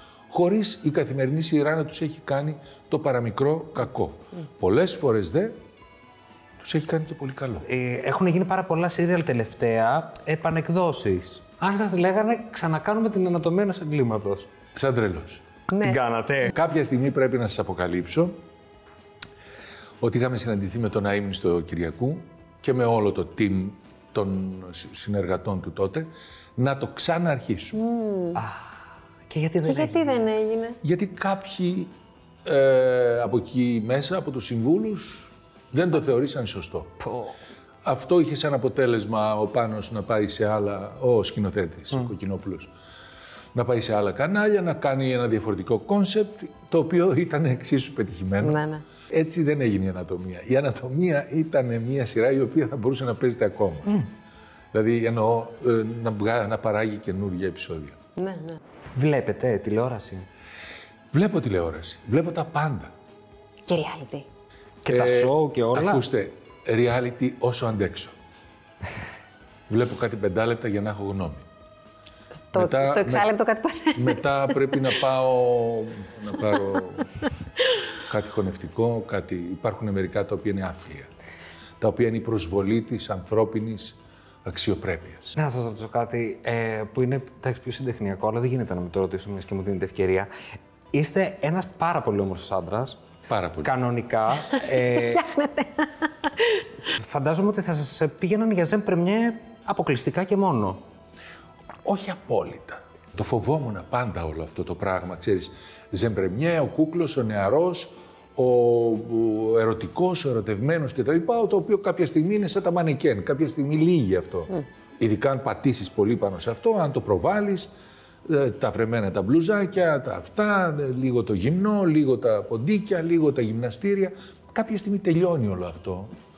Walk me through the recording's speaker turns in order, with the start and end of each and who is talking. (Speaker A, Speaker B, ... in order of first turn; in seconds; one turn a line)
Speaker A: 0.3-5.6
Speaker A: 6.6-7.7
Speaker B: 7.7-14.5
Speaker A: 14.8-15.4
Speaker C: 15.7-16.0
Speaker B: 15.8-16.5
Speaker A: 16.5-18.4
Speaker A: 20.0-27.8
Speaker C: 27.7-28.4
Speaker B: 28.4-28.8
Speaker B: 29.3-30.2
Speaker C: 29.6-30.8
Speaker A: 30.8-31.9
Speaker A: 32.5-37.0
Speaker B: 37.0-37.3
Speaker A: 37.8-42.7
Speaker A: 43.5-54.0
Speaker C: 48.4-48.8
Speaker A: 54.7-58.0
Speaker C: 58.2-58.6
Speaker B: 59.0-60.3
Speaker A: 61.1-62.9
Speaker C: 63.7-64.3
Speaker B: 64.8-66.0
Speaker A: 64.9-68.2
Speaker A: 69.7-71.5
Speaker C: 72.5-74.8
Speaker A: 72.5-73.3
Speaker A: 74.0-77.1
Speaker A: 78.1-81.1
Speaker A: 81.8-85.3
Speaker B: 85.4-90.3
Speaker B: 90.9-93.0
Speaker A: 93.3-93.7
Speaker B: 93.6-95.2
Speaker C: 94.5-96.7
Speaker B: 97.0-100.8
Speaker A: 101.8-117.7
Speaker A: 118.2-126.1